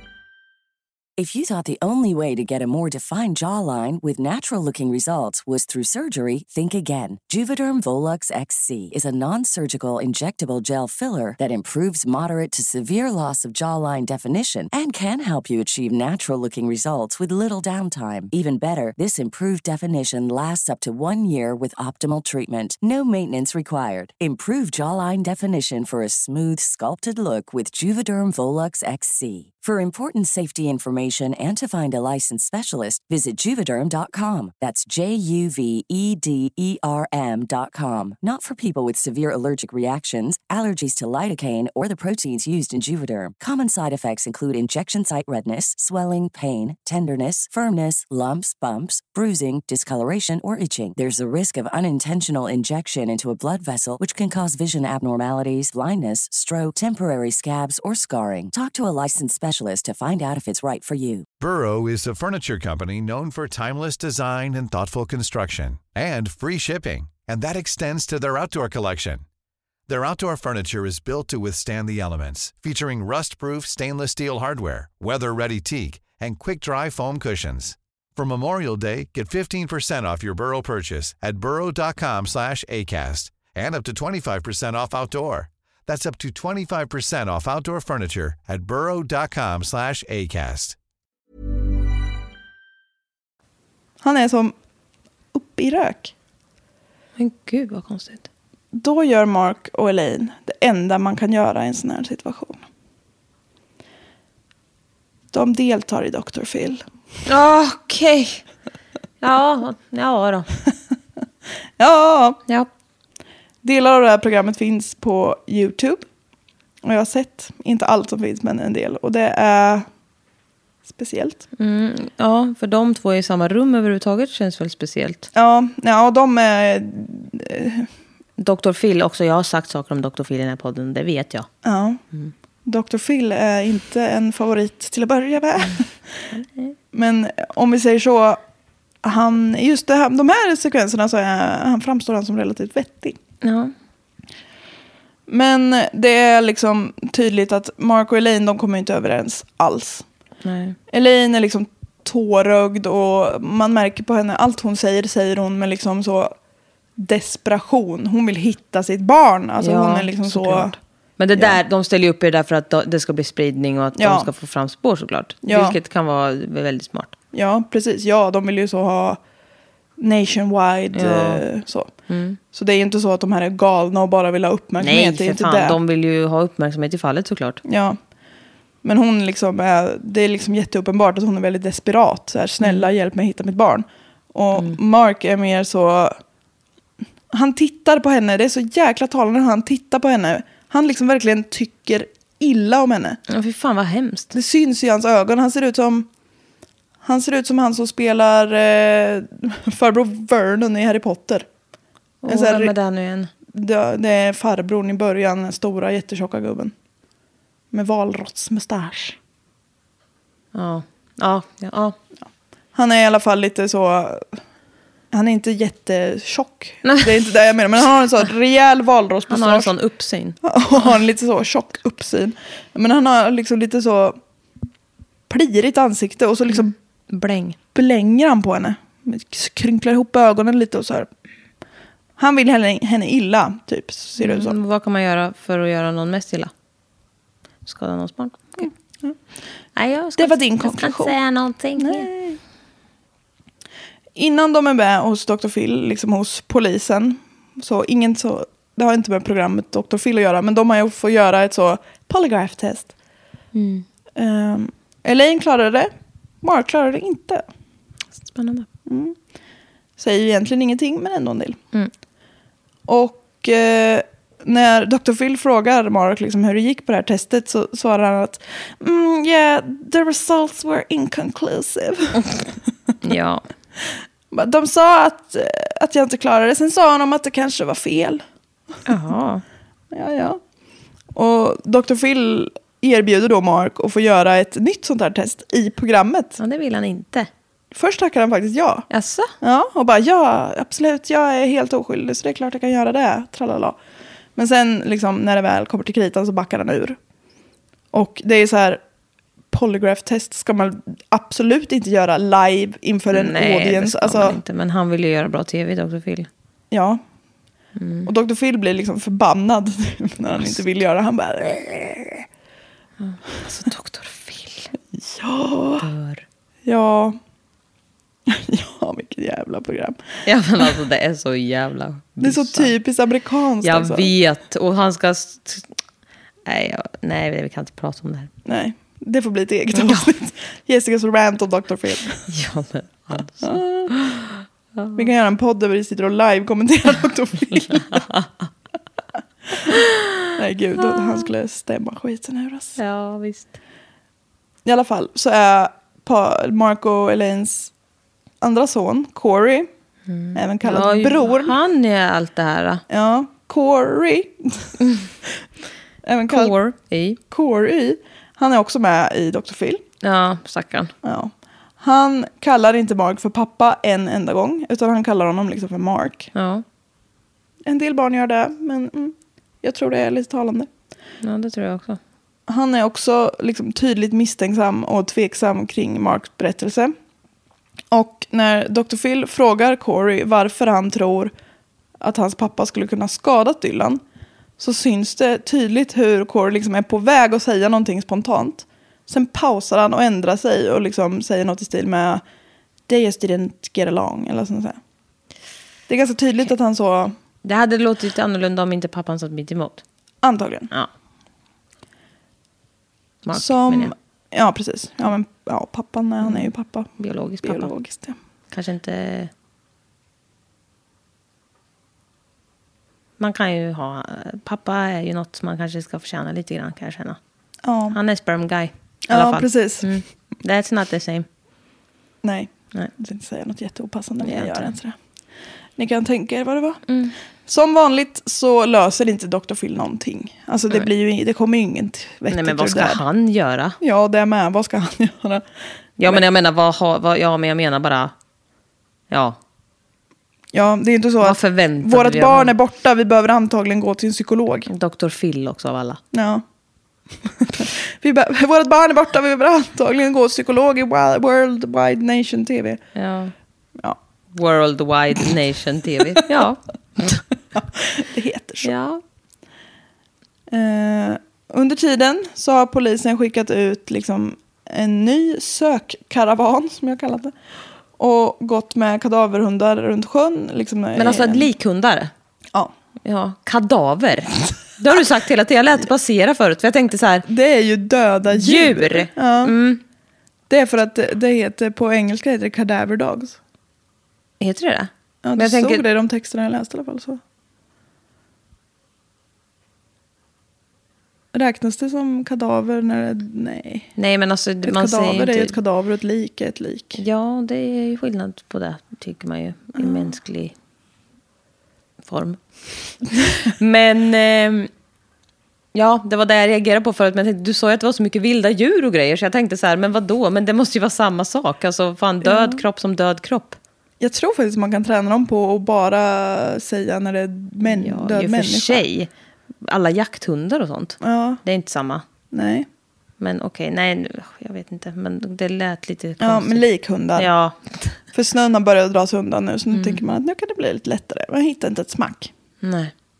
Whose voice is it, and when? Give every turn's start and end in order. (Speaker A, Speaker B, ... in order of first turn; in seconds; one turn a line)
Speaker A: 1.2-61.2
Speaker B: 61.4-69.2
Speaker B: 69.9-90.8
Speaker C: 94.0-94.5
Speaker C: 95.3-96.1
Speaker D: 97.2-98.3
Speaker C: 98.7-102.6
Speaker C: 105.3-106.8
Speaker D: 107.2-108.4
Speaker D: 109.2-110.5
Speaker C: 111.8-112.4
Speaker C: 113.6-116.0
Speaker C: 116.8-119.8
Speaker C: 120.9-121.4
Speaker D: 121.6-125.3
Speaker C: 125.3-127.9
Speaker D: 128.4-131.5
Speaker C: 131.6-132.0
Speaker C: 132.6-135.9
Speaker D: 136.3-136.7
Speaker C: 136.9-138.4
Speaker C: 139.0-143.2
Speaker D: 143.4-143.7
Speaker C: 145.3-150.0
Speaker D: 150.4-150.8
Speaker C: 150.9-156.3
Speaker C: 157.0-160.8
Speaker D: 159.6-167.1
Speaker C: 164.0-164.3
Speaker C: 165.4-165.8
Speaker C: 167.3-169.2
Speaker C: 170.0-171.9
Speaker D: 170.9-171.4
Speaker D: 172.1-172.4
Speaker C: 172.5-175.8
Speaker D: 174.8-177.6
Speaker C: 177.6-178.0
Speaker C: 178.8-186.2
Speaker C: 187.3-193.2
Speaker D: 193.3-194.3
Speaker C: 194.3-196.1
Speaker C: 197.0-201.4
Speaker D: 202.2-203.3
Speaker C: 202.3-202.7
Speaker C: 203.5-206.7
Speaker C: 207.7-209.2
Speaker D: 210.5-211.9
Speaker C: 212.7-214.4
Speaker C: 215.1-219.7
Speaker D: 216.8-217.1
Speaker D: 219.3-220.4
Speaker C: 220.4-224.2
Speaker C: 225.3-226.7
Speaker D: 226.5-227.6
Speaker C: 227.7-231.1
Speaker C: 232.2-234.6
Speaker D: 234.2-236.5
Speaker D: 237.6-238.7
Speaker C: 238.6-239.2
Speaker D: 239.8-242.1
Speaker C: 240.2-241.2
Speaker C: 241.8-242.4
Speaker C: 244.2-252.9
Speaker D: 253.5-253.8
Speaker C: 254.2-255.9
Speaker C: 256.4-257.4
Speaker D: 258.2-258.7
Speaker C: 258.9-259.1
Speaker C: 260.0-261.6
Speaker C: 262.9-272.3
Speaker D: 273.0-273.4
Speaker C: 274.3-278.2
Speaker D: 278.9-279.4
Speaker C: 279.9-280.4
Speaker C: 281.1-286.4
Speaker D: 286.4-287.3
Speaker C: 287.7-288.9
Speaker D: 288.9-289.3
Speaker C: 289.4-293.8
Speaker C: 294.4-297.0
Speaker C: 297.9-298.8
Speaker C: 299.5-304.4
Speaker D: 303.1-306.3
Speaker C: 306.7-307.0
Speaker D: 307.8-308.1
Speaker C: 308.1-312.2
Speaker D: 313.0-314.7
Speaker C: 315.0-315.9
Speaker D: 315.8-316.2
Speaker C: 316.6-317.2
Speaker C: 318.3-320.0
Speaker D: 320.2-322.7
Speaker C: 322.2-324.1
Speaker D: 323.6-325.7
Speaker D: 326.4-328.3
Speaker C: 328.4-332.3
Speaker D: 329.7-330.1
Speaker D: 332.3-335.0
Speaker C: 333.4-333.9
Speaker C: 334.9-338.0
Speaker D: 337.5-338.3
Speaker D: 339.7-340.2
Speaker C: 340.4-342.8
Speaker D: 342.8-343.5
Speaker C: 344.6-347.7
Speaker C: 348.4-349.7
Speaker D: 350.1-352.8
Speaker C: 350.3-351.5
Speaker C: 352.9-354.8
Speaker D: 354.8-355.1
Speaker C: 356.0-356.5
Speaker D: 356.3-357.2
Speaker C: 357.3-359.8
Speaker D: 360.0-360.9
Speaker C: 361.0-366.3
Speaker D: 366.3-366.6
Speaker C: 367.6-370.7
Speaker D: 371.2-372.0
Speaker C: 372.5-376.9
Speaker C: 377.9-381.3
Speaker C: 382.0-384.0
Speaker C: 384.6-392.2
Speaker C: 392.9-394.8
Speaker C: 395.9-397.1
Speaker D: 397.4-399.8
Speaker C: 400.2-400.7
Speaker D: 403.2-403.9
Speaker C: 403.3-406.9
Speaker D: 406.2-407.7
Speaker C: 407.4-408.1
Speaker D: 408.5-409.3
Speaker D: 413.2-417.2
Speaker C: 417.6-418.0
Speaker D: 417.9-421.3
Speaker C: 419.1-419.9
Speaker C: 422.2-424.9
Speaker D: 424.2-424.7
Speaker C: 425.8-426.8
Speaker D: 426.9-427.1
Speaker C: 427.5-433.0
Speaker D: 432.3-433.8
Speaker C: 433.8-435.4
Speaker D: 436.0-438.1
Speaker D: 439.1-439.4
Speaker C: 440.5-444.7
Speaker D: 441.2-442.5
Speaker D: 444.7-446.0
Speaker C: 446.1-446.4
Speaker C: 447.4-452.8
Speaker D: 452.9-453.3
Speaker D: 454.3-457.2
Speaker C: 457.5-458.7
Speaker D: 458.6-459.0
Speaker C: 460.5-467.3
Speaker C: 468.0-471.5
Speaker D: 470.9-472.1
Speaker D: 473.0-477.2
Speaker C: 477.2-479.5
Speaker D: 478.3-479.8
Speaker C: 480.5-483.4
Speaker D: 484.4-485.8
Speaker C: 485.2-487.2
Speaker C: 491.3-493.9
Speaker D: 494.0-495.6
Speaker C: 494.6-497.0
Speaker D: 497.0-500.5
Speaker C: 499.8-500.1
Speaker D: 502.0-502.4
Speaker D: 503.4-504.7
Speaker D: 505.7-513.6
Speaker C: 512.2-512.6
Speaker C: 514.0-518.8
Speaker D: 517.6-519.1
Speaker D: 519.6-522.0
Speaker C: 521.0-521.4
Speaker C: 522.3-522.7
Speaker D: 523.2-526.6
Speaker C: 526.2-527.3
Speaker D: 527.1-528.0
Speaker C: 528.1-532.3
Speaker D: 529.7-530.0
Speaker D: 532.6-532.9